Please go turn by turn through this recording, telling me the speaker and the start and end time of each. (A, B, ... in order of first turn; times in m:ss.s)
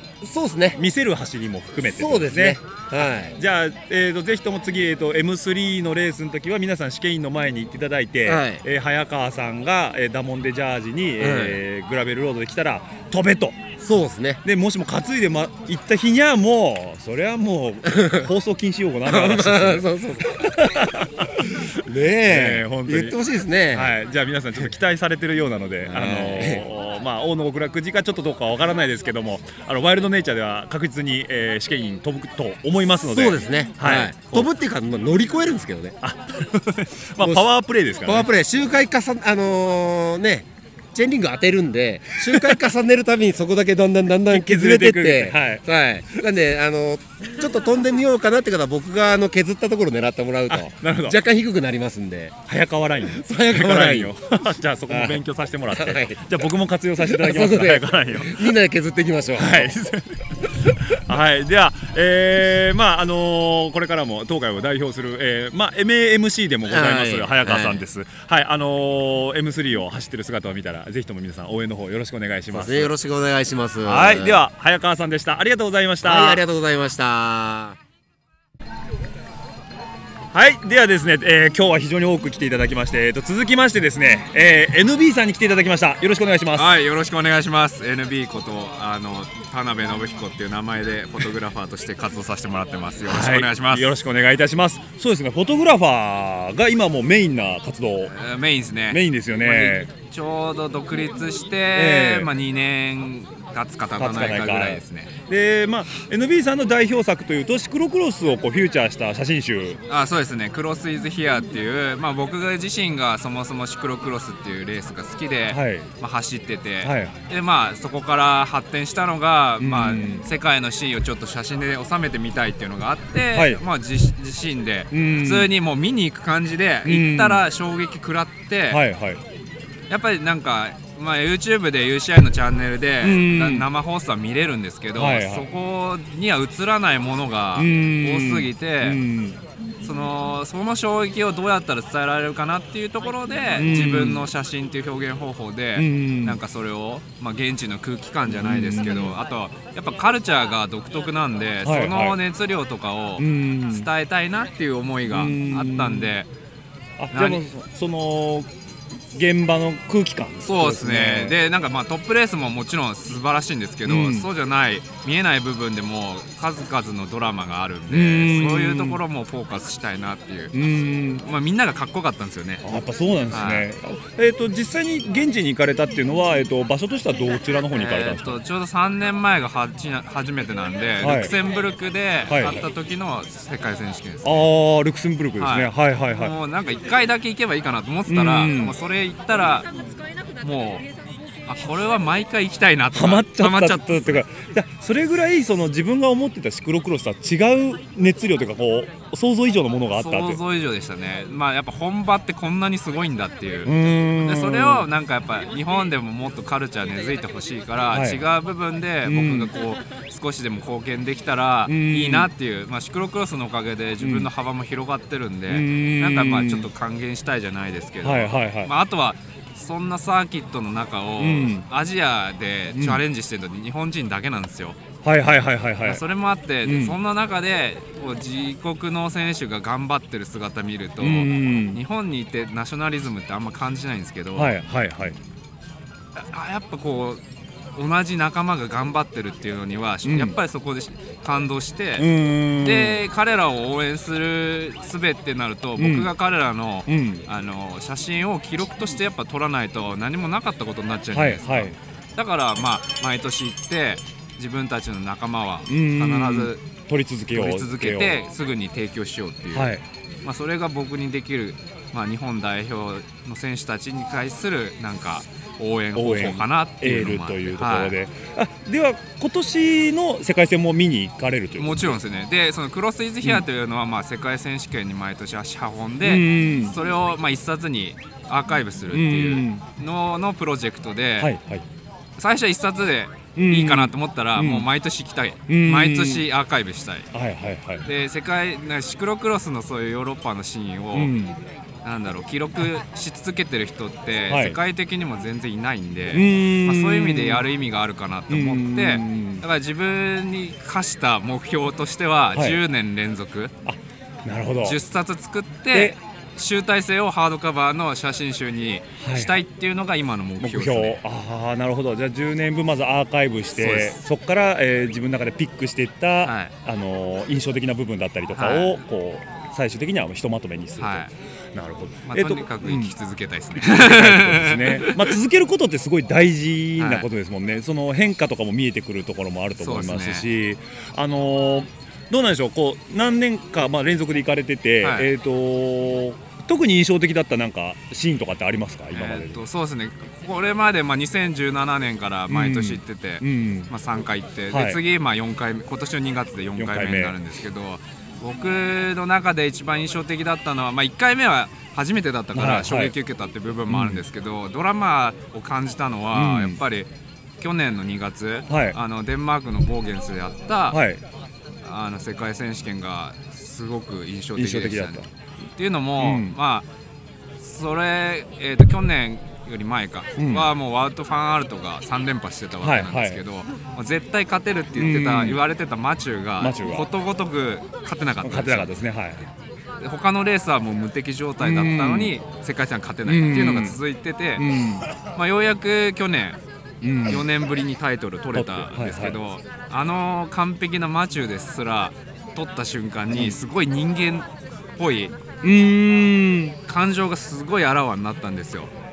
0:00.2-0:00.8 A
0:00.7-0:02.6 B
0:01.8-0:03.4 A
0:03.4-0:13.7 B
0:08.2-0:08.6 A
0:11.2-0:11.6 A
0:13.8-0:14.4 A
0:14.4-0:21.7 B
0:17.9-0:18.2 A
0:19.0-0:20.5 A
0:21.8-0:23.9 A
0:22.2-0:23.2 B
0:23.7-0:34.5 B
0:25.8-0:26.6 A
0:33.0-0:36.0 A
0:36.0-0:38.3 B
0:37.2-0:37.4 A
0:38.0-0:52.4 A
0:42.2-0:42.6 B
0:44.3-0:46.2 B
0:50.5-0:51.2 B
0:52.5-0:58.5 B
0:53.1-0:54.1 A
0:54.9-0:55.2 A
0:55.7-0:56.2 A
0:57.0-0:59.7 A
0:59.4-1:12.9 B
1:06.7-1:07.8 A
1:12.5-1:14.4 A
1:13.8-1:16.4 B
1:16.0-1:17.8 A
1:20.3-1:26.8 B
1:26.5-1:33.9 C
1:33.0-1:38.1 B
1:38.0-1:45.1 C
1:38.9-1:39.9 B
1:41.7-1:42.3 B
1:44.0-1:49.8 B
1:49.9-2:08.8 C
1:55.5-1:55.9 B
1:56.8-1:57.2 B
1:59.6-2:00.3 B
2:03.3-2:03.6 B
2:04.9-2:05.5 B
2:06.8-2:07.4 B
2:08.7-2:09.2 B
2:09.9-2:19.0 C
2:13.0-2:13.7 B
2:14.9-2:15.5 B
2:17.5-2:19.4 B
2:19.8-2:36.3 C
2:23.5-2:24.3 B
2:25.7-2:26.4 B
2:28.2-2:29.2 B
2:31.6-2:32.2 B
2:33.2-2:33.9 B
2:35.1-2:36.1 B
2:37.0-2:38.5 B
2:37.1-2:37.4 C
2:39.1-2:41.4 B
2:40.4-2:50.5 C
2:43.8-2:44.3 B
2:47.9-2:49.0 B
2:50.5-2:51.2 B
2:51.2-2:52.6 C
2:52.6-2:58.4 B
2:53.3-2:53.6 C
2:57.7-3:04.5 C
3:01.0-3:01.3 B
3:02.3-3:02.6 B
3:04.2-3:06.3 B
3:05.4-3:09.7 C
3:08.1-3:08.8 B
3:10.4-3:10.8 C
3:11.5-3:14.2 C
3:12.9-3:20.4 B
3:19.9-3:44.8 C
3:23.6-3:24.9 B
3:27.9-3:28.2 B
3:29.0-3:29.5 B
3:31.6-3:32.3 B
3:34.0-3:34.3 B
3:35.5-3:36.7 B
3:38.0-3:38.7 B
3:41.2-3:41.6 B
3:42.7-3:43.0 B
3:45.0-3:46.0 B
3:45.8-3:54.5 C
3:46.6-3:47.0 B
3:51.0-3:51.8 B
3:54.3-3:55.2 B
3:56.2-3:57.2 C
3:57.8-4:02.1 C
4:00.0-4:00.4 B
4:02.0-4:03.0 B
4:02.6-4:16.6 C
4:05.8-4:06.1 B
4:06.8-4:07.3 B
4:11.1-4:11.7 B
4:15.7-4:18.2 B
4:17.3-4:19.7 C
4:19.5-4:19.8 B
4:20.2-4:27.9 C
4:25.9-4:32.0 B
4:31.6-4:41.3 C
4:36.0-4:36.8 B
4:38.9-4:39.6 B
4:41.2-4:41.6 B
4:42.2-4:47.1 C
4:43.4-4:44.7 B
4:45.5-4:46.2 B
4:47.1-4:47.9 B
4:47.8-4:51.1 C
4:50.9-4:51.4 B
4:51.8-5:03.5 C
4:54.3-4:54.6 B
4:56.1-4:57.5 B
4:58.3-4:59.4 B
5:02.3-5:02.6 B
5:03.6-5:04.8 B
5:04.6-5:11.0 C
5:09.0-5:09.4 B
5:10.4-5:23.0 B
5:13.6-5:14.0 C
5:16.2-5:16.5 C
5:18.3-5:18.8 C
5:20.8-5:21.1 C
5:22.1-5:25.1 C
5:23.5-5:39.4 B
5:26.8-5:27.1 C
5:29.6-5:30.2 C
5:34.8-5:35.1 C
5:38.9-5:56.9 C
5:42.3-5:43.7 B
5:44.5-5:44.8 B
5:46.6-5:47.2 B
5:52.3-5:52.9 B
5:53.7-5:54.0 B
5:56.1-5:56.6 B
5:57.4-6:00.8 C
5:58.5-5:58.8 B
6:00.7-6:01.0 B
6:01.6-6:05.0 C
6:04.3-6:05.1 B
6:05.6-6:06.6 C
6:06.0-6:06.4 B
6:07.4-6:18.7 C
6:10.2-6:10.5 B
6:12.6-6:13.2 B
6:14.7-6:15.4 B
6:16.4-6:16.9 B
6:18.2-6:19.3 B
6:19.8-6:24.4 C
6:21.4-6:22.1 B
6:23.0-6:23.8 B
6:24.4-6:24.9 B
6:25.1-6:26.4 C
6:26.8-6:27.3 B
6:27.0-6:35.1 C
6:28.3-6:29.2 B
6:33.1-6:33.4 B
6:35.4-6:36.6 B
6:36.7-6:38.7 C